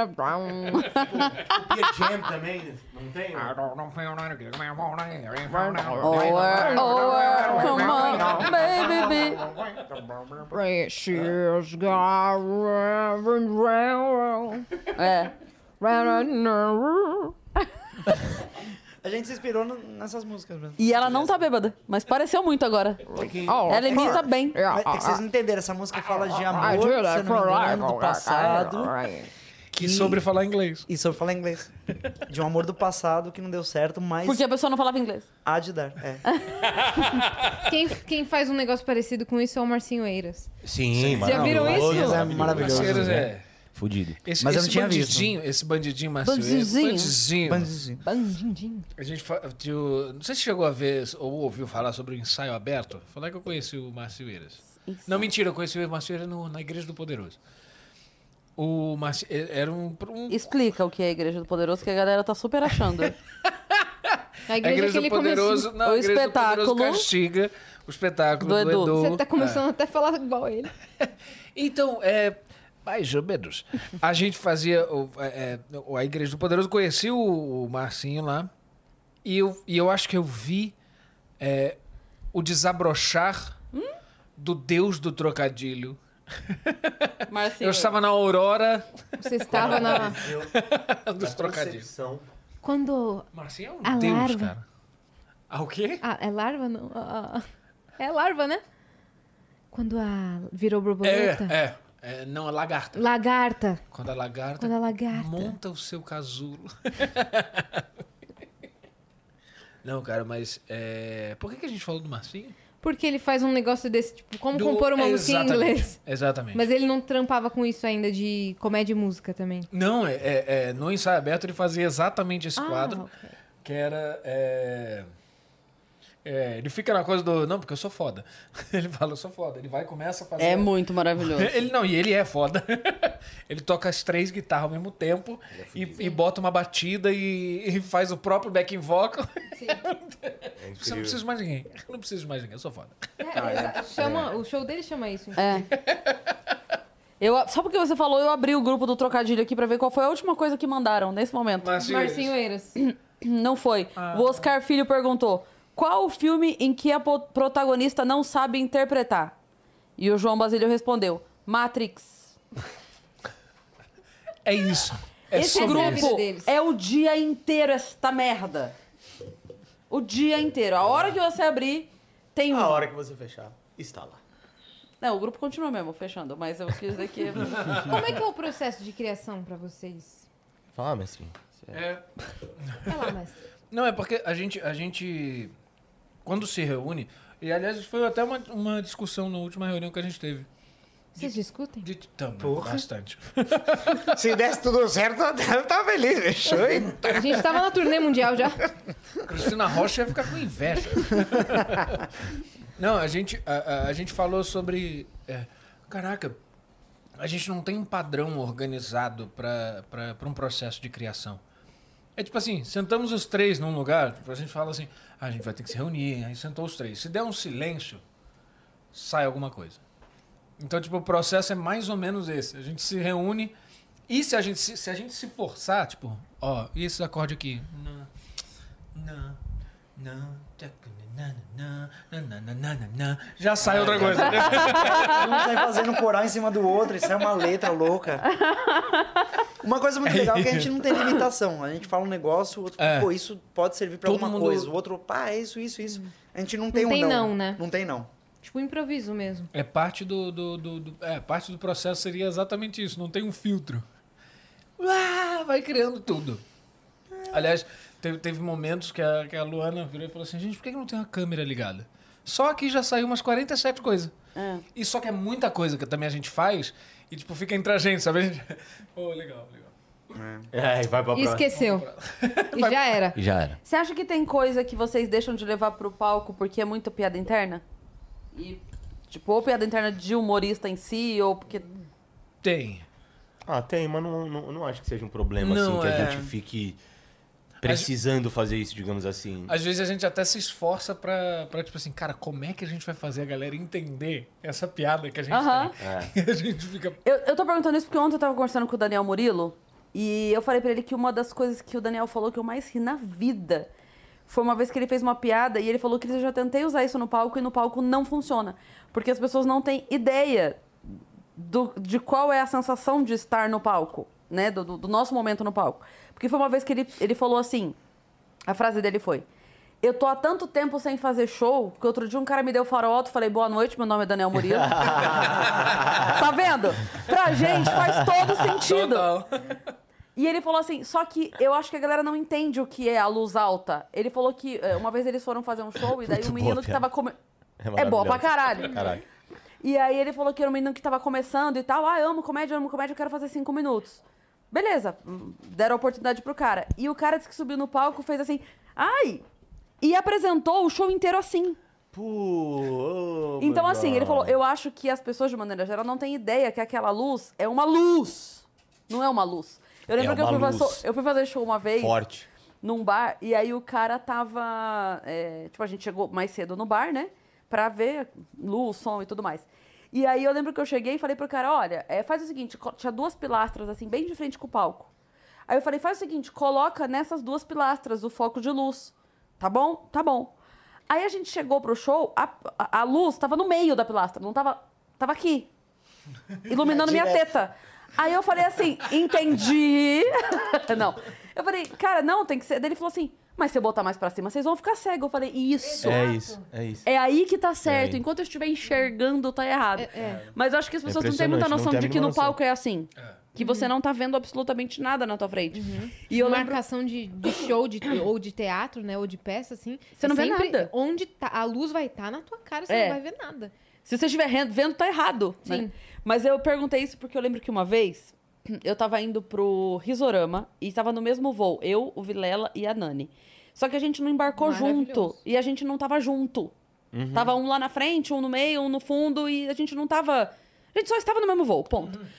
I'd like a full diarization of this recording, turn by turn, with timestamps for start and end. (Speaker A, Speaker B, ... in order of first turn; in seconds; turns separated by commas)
Speaker A: 0.3-0.8, Speaker B: 0.7-1.1, Speaker C: 0.9-3.6, Speaker D: 3.7-8.0, Speaker B: 6.0-9.4, Speaker A: 6.8-8.1, Speaker C: 8.1-9.8, Speaker A: 10.5-11.1, Speaker C: 11.1-11.4, Speaker A: 13.1-14.6, Speaker B: 14.9-15.3, Speaker A: 15.8-17.2, Speaker E: 19.0-21.3, Speaker B: 20.8-24.6, Speaker C: 23.1-24.1, Speaker A: 23.5-23.8, Speaker E: 23.8-29.1, Speaker A: 24.5-25.2, Speaker A: 26.6-29.2, Speaker D: 29.7-30.8, Speaker E: 29.8-30.2, Speaker E: 30.9-31.7, Speaker E: 32.3-34.4, Speaker B: 34.2-35.3, Speaker E: 35.4-36.2, Speaker B: 36.3-37.2, Speaker D: 37.0-37.5, Speaker A: 37.6-40.5, Speaker C: 40.6-44.2, Speaker D: 41.0-41.7, Speaker A: 41.2-42.2, Speaker E: 41.3-43.3, Speaker D: 42.5-43.4, Speaker D: 44.2-47.8, Speaker E: 44.4-45.3, Speaker B: 46.2-47.1, Speaker E: 47.5-48.0, Speaker A: 48.0-48.9, Speaker D: 49.0-57.4, Speaker B: 54.8-55.3, Speaker D: 58.5-60.4, Speaker B: 60.3-63.1, Speaker D: 63.6-69.6, Speaker A: 64.5-65.7, Speaker B: 65.8-67.1, Speaker B: 68.4-69.0, Speaker A: 68.9-70.7, Speaker D: 71.5-78.5, Speaker D: 79.2-80.7, Speaker D: 81.4-81.8, Speaker D: 82.3-83.5, Speaker D: 84.4-88.9, Speaker B: 87.3-88.0, Speaker A: 89.2-90.2, Speaker D: 89.4-91.9, Speaker C: 89.5-90.6, Speaker C: 91.2-92.3, Speaker A: 92.6-93.3, Speaker D: 93.3-94.6, Speaker A: 93.8-94.5, Speaker D: 95.5-96.0, Speaker A: 96.0-97.4, Speaker A: 98.0-98.6, Speaker A: 99.7-101.6, Speaker D: 101.0-103.0, Speaker A: 102.9-103.8, Speaker D: 103.9-107.8, Speaker A: 104.6-105.6, Speaker D: 109.8-112.5, Speaker A: 112.8-116.0, Speaker D: 114.5-116.7, Speaker A: 116.5-119.7, Speaker D: 119.7-123.0, Speaker A: 122.6-123.3, Speaker D: 123.6-125.1, Speaker D: 126.2-143.0, Speaker B: 130.4-131.6, Speaker C: 135.5-136.1, Speaker A: 139.5-139.8, Speaker C: 140.6-141.2, Speaker A: 143.2-145.7, Speaker E: 143.4-143.8, Speaker C: 144.0-144.3, Speaker B: 145.4-145.7, Speaker D: 145.7-146.3, Speaker B: 147.2-151.8, Speaker D: 151.6-152.3, Speaker A: 151.8-152.8, Speaker B: 152.8-159.3, Speaker D: 154.0-154.5, Speaker B: 160.0-162.3, Speaker D: 164.4-166.2, Speaker B: 165.3-168.7, Speaker A: 165.4-166.5, Speaker B: 169.9-172.9, Speaker C: 172.5-174.2, Speaker B: 175.0-177.8, Speaker D: 177.6-177.9, Speaker A: 177.6-180.2, Speaker C: 180.7-181.8, Speaker D: 181.7-182.0, Speaker D: 182.7-183.0, Speaker A: 182.8-183.4, Speaker D: 183.7-185.5, Speaker D: 186.2-190.5, Speaker D: 191.1-194.1, Speaker A: 191.2-191.9, Speaker E: 192.4-192.8, Speaker E: 194.0-197.3, Speaker D: 196.5-197.2, Speaker A: 197.0-198.6, Speaker D: 199.2-202.0, Speaker D: 202.8-206.4, Speaker D: 207.2-211.4, Speaker D: 212.2-218.0, Speaker D: 218.9-219.8, Speaker D: 220.6-223.5, Speaker D: 224.1-228.1, Speaker D: 228.9-229.4, Speaker D: 229.9-235.2, Speaker E: 233.6-238.3, Speaker C: 233.6-234.5, Speaker B: 234.8-235.3, Speaker B: 238.3-239.3, Speaker E: 239.6-248.1, Speaker D: 240.0-240.7, Speaker D: 242.8-243.1, Speaker D: 244.0-244.7, Speaker A: 246.7-247.6, Speaker A: 248.4-249.5, Speaker D: 249.5-253.8, Speaker D: 254.8-256.4, Speaker D: 257.3-264.1, Speaker B: 264.3-264.6, Speaker D: 264.7-269.7, Speaker E: 270.1-270.5, Speaker C: 270.5-271.5, Speaker A: 271.1-271.9, Speaker D: 271.6-273.0, Speaker A: 272.5-273.2, Speaker C: 273.1-273.6, Speaker B: 273.6-277.6, Speaker B: 278.3-281.7, Speaker D: 282.4-282.8, Speaker C: 283.4-286.8, Speaker D: 285.4-286.2, Speaker E: 285.9-286.3, Speaker C: 287.6-289.6, Speaker D: 287.6-287.9, Speaker D: 289.5-297.0, Speaker B: 295.3-295.7, Speaker C: 295.8-296.1, Speaker B: 297.0-303.7, Speaker B: 304.3-310.6, Speaker B: 311.4-317.8, Speaker B: 318.4-319.2, Speaker B: 319.8-325.4, Speaker C: 324.5-326.1, Speaker B: 325.9-329.2, Speaker C: 327.8-328.4, Speaker D: 328.6-329.6, Speaker B: 330.1-337.1, Speaker C: 336.1-336.9, Speaker C: 337.6-339.0, Speaker B: 337.7-339.0, Speaker B: 339.6-349.2, Speaker B: 349.8-351.6, Speaker C: 351.9-354.4, Speaker B: 353.4-362.0, Speaker C: 360.0-360.8, Speaker C: 361.8-362.3, Speaker B: 362.6-374.9, Speaker B: 375.5-380.3, Speaker B: 380.9-385.5, Speaker B: 386.5-396.1, Speaker C: 386.6-387.2, Speaker C: 395.8-396.9, Speaker A: 395.8-396.4, Speaker B: 396.8-406.6, Speaker C: 397.6-398.0, Speaker A: 399.8-400.2, Speaker C: 400.8-402.4, Speaker A: 403.4-403.7, Speaker A: 405.5-413.5, Speaker B: 410.0-410.7, Speaker B: 412.7-413.0, Speaker B: 413.9-426.5, Speaker A: 415.4-415.7, Speaker A: 424.4-425.2, Speaker C: 426.9-427.4, Speaker B: 427.1-432.1